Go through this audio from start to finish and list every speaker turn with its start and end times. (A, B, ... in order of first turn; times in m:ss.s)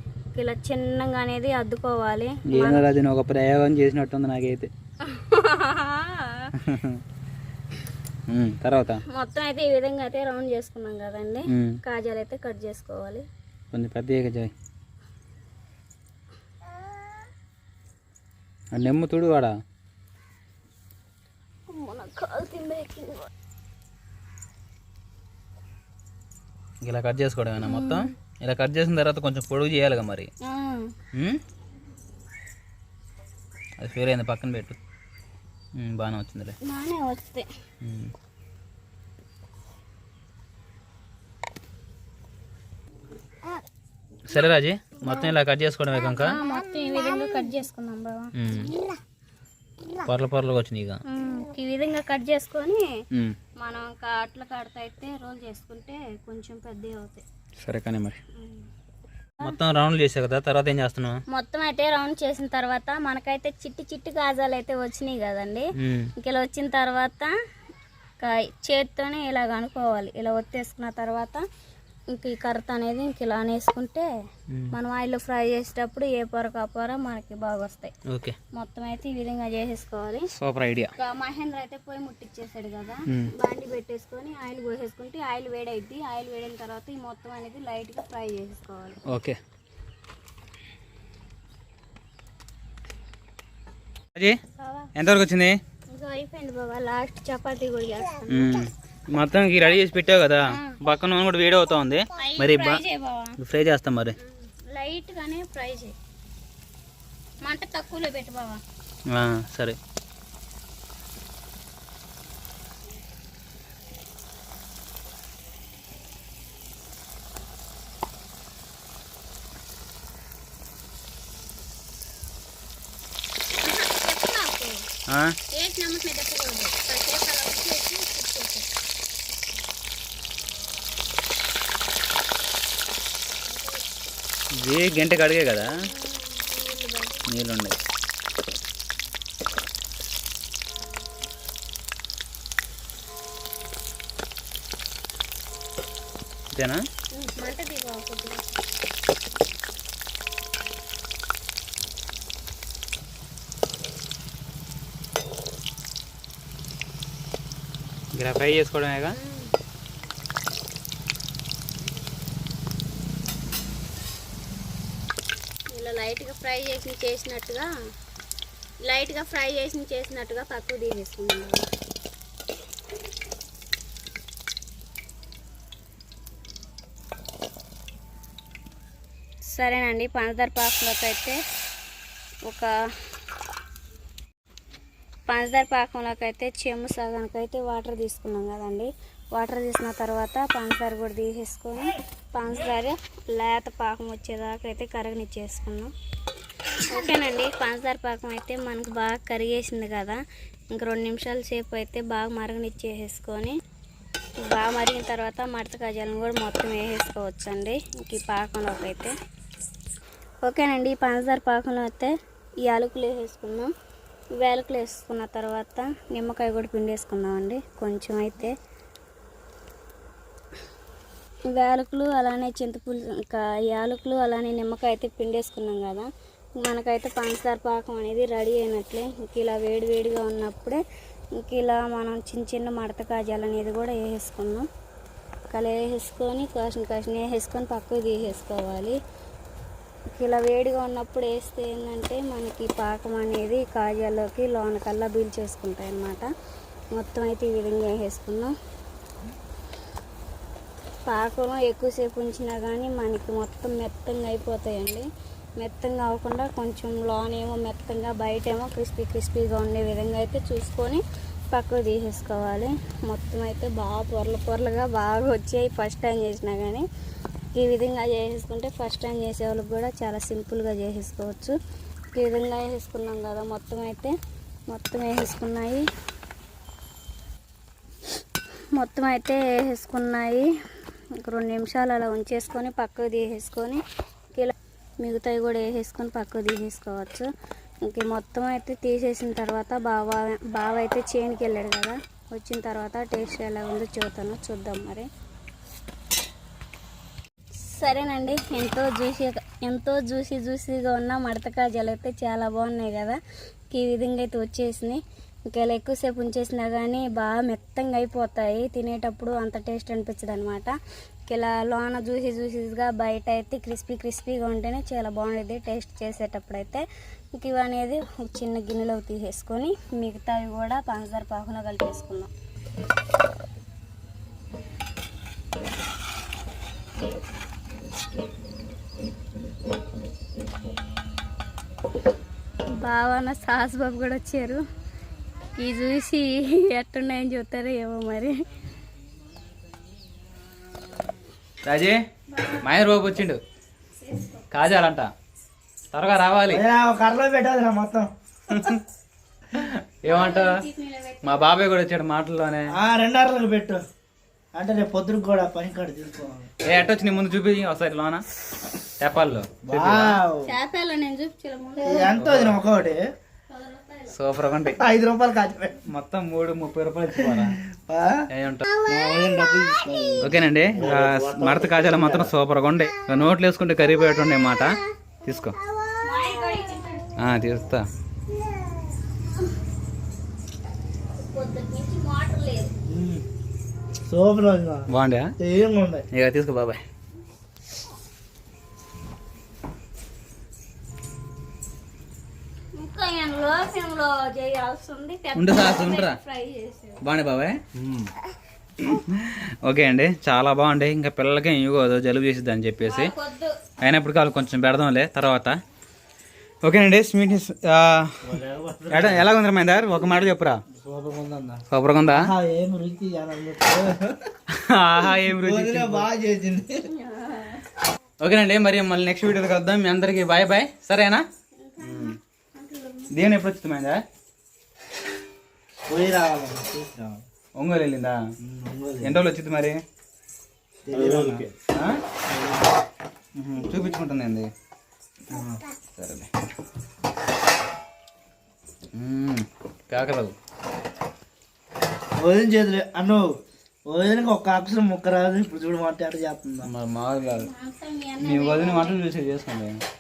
0:00.4-0:02.9 A
0:02.5-0:04.7 B
0:05.0-0:06.5 A
0:06.6-0:07.0 B
0:08.3-0:09.0 B
0:09.1-0:13.2 A
0:11.5-0:11.8 B
0:13.7-0:14.5 B
0:18.7-0:19.5 B
0:21.7-0:23.3 A
0:26.8-0:30.3 B
0:27.6-0:28.1 A
0:30.4-0:31.0 A
0:31.1-0:31.4 B
0:33.8-0:34.8 B
0:35.8-0:36.6 B
0:36.6-0:37.5 A
0:37.8-0:38.1 B
0:44.3-0:46.4 B
0:45.0-0:45.3 A
0:46.2-0:48.3 A
0:48.4-0:48.8 B
0:50.0-0:51.0 B
0:51.1-0:52.9 A
0:53.6-0:57.2 A
0:57.6-0:58.2 B
0:58.4-0:58.7 A
0:59.4-1:01.2 B
1:01.3-1:05.6 A
1:05.8-1:06.1 B
1:06.2-1:07.3 A
1:08.2-1:11.4 A
1:12.1-1:14.1 A
1:14.7-1:17.9 A
1:18.1-1:18.4 B
1:18.5-1:20.3 A
1:20.4-1:20.9 B
1:21.0-1:29.0 A
1:29.1-1:29.4 B
1:34.6-1:34.9 A
1:35.0-1:35.6 B
1:35.9-1:38.6 A
1:38.3-1:42.8 B
1:40.5-1:40.8 A
1:42.2-1:43.4 A
1:43.4-1:44.2 B
1:44.2-1:46.0 A
1:47.4-1:48.6 A
1:49.1-1:49.8 B
2:03.6-2:04.8 A
2:05.1-2:05.4 B
2:05.5-2:08.7 A
2:14.6-2:15.7 B
2:15.6-2:17.3 A
2:17.3-2:17.8 B
2:26.5-2:26.8 B
2:27.1-2:28.5 A
2:38.1-2:39.1 B
2:39.2-2:39.5 A
2:45.7-2:47.7 A
2:48.8-2:51.7 A
2:59.5-3:01.4 A
3:05.3-3:15.9 A
3:16.9-3:20.2 A
3:20.7-3:23.6 A
3:24.4-3:29.1 A
3:30.4-3:32.1 A
3:32.6-3:33.7 A
3:34.4-3:38.5 A
3:41.5-3:50.8 A
3:51.4-3:54.7 A
3:55.5-3:59.0 A
4:00.2-4:06.2 A
4:06.9-4:08.5 A
4:11.1-4:15.1 A
4:15.6-4:26.8 A
4:27.6-4:31.6 A
4:32.2-4:34.1 A
4:34.7-4:35.8 A
4:38.8-4:40.5 A
4:41.2-4:43.8 A
4:44.3-4:47.3 A
4:47.8-4:55.1 A
4:57.6-5:03.2 A
5:03.7-5:10.7 A
5:11.3-5:16.8 A
5:17.4-5:22.3 A
5:32.8-5:34.6 A
5:35.6-5:38.4 A
5:41.6-5:42.0 B
5:42.3-5:42.6 A
5:42.5-5:43.4 B
5:44.0-5:44.4 A
5:44.5-5:45.1 B
5:45.9-5:46.6 B
5:46.5-5:48.1 C
5:48.5-5:48.8 B
5:49.6-5:50.7 B
5:50.1-5:51.4 A
5:51.2-5:52.7 B
5:52.7-5:53.8 C
5:54.5-5:56.5 C
5:56.6-5:58.2 B
5:59.0-6:00.2 B
5:59.6-6:00.5 C
6:00.4-6:02.2 A
6:01.8-6:03.0 C
6:02.2-6:02.6 B
6:03.5-6:04.1 A
6:04.1-6:04.8 B
6:04.8-6:05.8 C
6:05.9-6:07.6 B
6:07.2-6:08.2 C
6:08.3-6:08.7 B
6:08.9-6:12.3 C
6:10.2-6:15.6 B
6:16.0-6:17.1 A
6:17.2-6:17.9 B
6:18.4-6:18.7 A
6:21.1-6:22.7 A
6:22.9-6:23.2 C
6:24.1-6:24.9 C
6:24.9-6:25.3 B
6:25.4-6:26.1 C
6:26.1-6:26.8 B
6:32.8-6:37.0 A
6:35.4-6:36.2 B
6:37.0-6:38.1 B
6:38.8-6:43.1 B
6:42.8-6:43.6 A
6:43.8-6:45.6 B
6:46.6-6:48.3 B
6:48.2-6:49.3 C
6:48.9-6:50.6 B
6:50.8-6:54.3 C
6:51.7-6:52.3 B
6:54.5-6:56.1 B
6:55.3-6:56.9 C
6:56.9-6:57.7 A
6:58.2-7:01.2 B
7:01.6-7:03.1 A
7:01.8-7:02.2 B
7:03.1-7:04.0 B
7:05.9-7:07.2 C
7:07.6-7:08.2 B
7:08.4-7:09.2 C
7:09.0-7:09.8 B
7:10.8-7:11.5 C
7:11.1-7:12.0 B
7:12.3-7:12.7 C
7:13.4-7:14.5 B
7:15.3-7:15.6 C
7:16.0-7:16.3 B
7:18.9-7:20.4 B
7:22.2-7:23.4 C
7:23.9-7:26.7 C
7:26.6-7:27.5 B
7:27.2-7:29.0 A
7:28.2-7:29.8 B